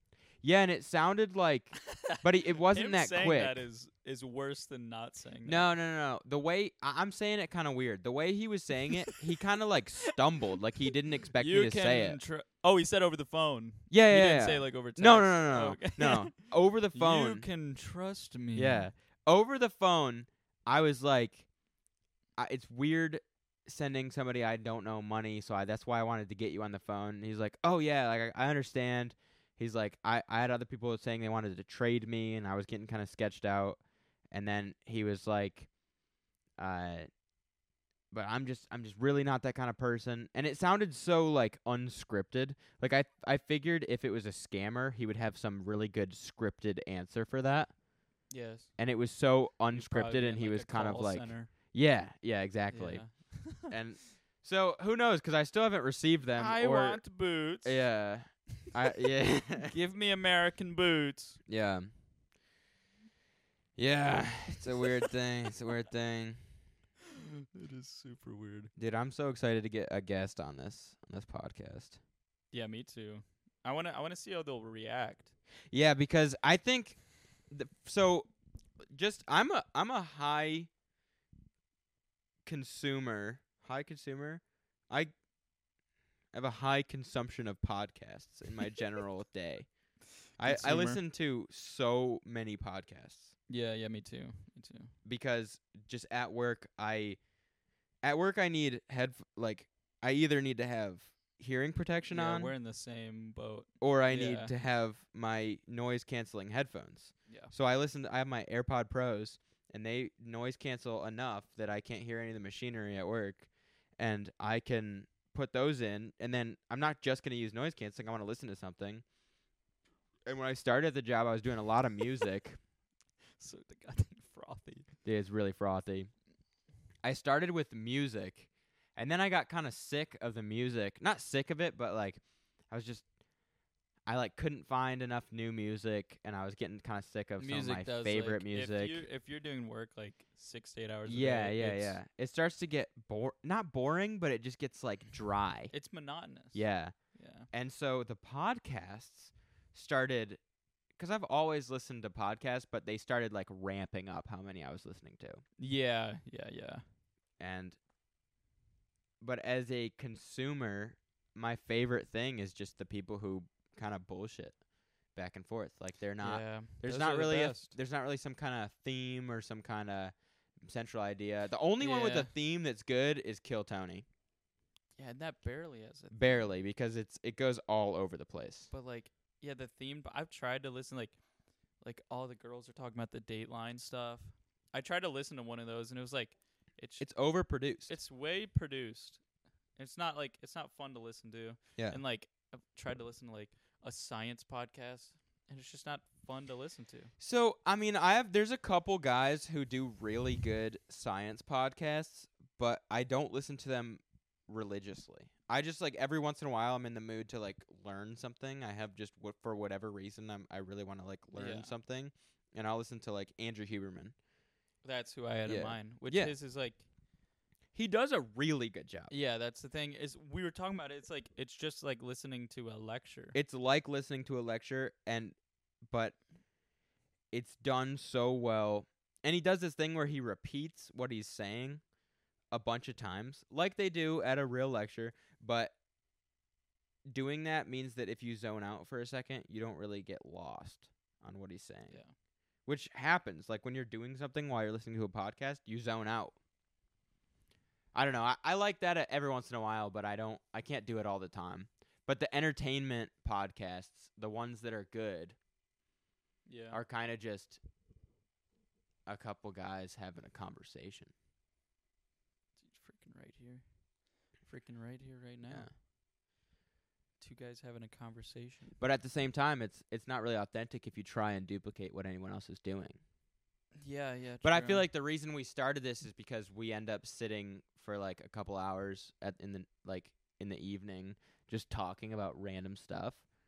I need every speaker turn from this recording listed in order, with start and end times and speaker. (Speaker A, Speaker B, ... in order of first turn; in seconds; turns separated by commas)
Speaker A: 0.4-3.6, Speaker B: 1.8-5.7, Speaker A: 5.4-12.2, Speaker B: 11.3-18.9, Speaker A: 13.9-17.5, Speaker A: 18.5-21.5, Speaker A: 22.4-33.8, Speaker A: 34.3-35.7, Speaker A: 36.6-37.1, Speaker A: 38.1-47.7, Speaker B: 48.3-48.7, Speaker A: 48.8-57.0, Speaker B: 49.7-51.5, Speaker B: 52.7-53.7, Speaker B: 56.4-57.9, Speaker A: 57.6-59.7, Speaker B: 59.6-61.4, Speaker A: 61.5-61.9, Speaker A: 63.8-66.4, Speaker B: 67.1-68.7, Speaker A: 68.8-72.0, Speaker B: 72.5-75.3, Speaker A: 75.7-78.3, Speaker A: 78.9-80.7, Speaker A: 82.4-85.1, Speaker A: 86.3-89.7, Speaker B: 90.4-91.0, Speaker A: 90.4-93.3, Speaker B: 93.5-94.9, Speaker A: 95.0-97.2, Speaker A: 98.0-102.5, Speaker B: 102.1-104.5, Speaker A: 103.8-119.0, Speaker B: 107.3-107.5, Speaker A: 120.3-122.6, Speaker B: 123.4-124.9, Speaker A: 125.0-126.1, Speaker A: 127.0-133.0, Speaker A: 134.1-139.0, Speaker B: 137.4-142.0, Speaker A: 141.1-145.7, Speaker B: 145.7-146.6, Speaker A: 146.5-146.9, Speaker B: 147.1-147.5, Speaker A: 147.5-150.4, Speaker A: 151.0-155.4, Speaker B: 155.6-156.8, Speaker A: 157.4-157.8, Speaker A: 159.2-164.6, Speaker A: 165.1-174.0, Speaker B: 166.2-167.8, Speaker B: 171.8-172.3, Speaker B: 175.0-176.5, Speaker A: 176.1-178.7, Speaker B: 178.7-181.2, Speaker B: 181.8-187.1, Speaker A: 187.0-187.9, Speaker B: 187.9-189.2, Speaker B: 189.8-197.1, Speaker A: 197.2-214.1, Speaker B: 211.3-211.7, Speaker B: 214.8-216.8, Speaker A: 215.4-216.3, Speaker A: 217.7-219.1, Speaker B: 219.1-223.3, Speaker A: 223.3-225.3, Speaker A: 225.9-226.2, Speaker A: 227.3-231.8, Speaker A: 232.5-235.7, Speaker A: 237.1-242.0, Speaker A: 242.7-246.3, Speaker A: 247.9-255.3, Speaker B: 256.4-256.8, Speaker A: 256.7-257.6, Speaker A: 259.1-261.1, Speaker B: 262.6-263.6, Speaker B: 264.4-265.7, Speaker B: 267.2-268.8, Speaker A: 268.8-273.0, Speaker B: 273.8-274.8, Speaker A: 274.4-283.2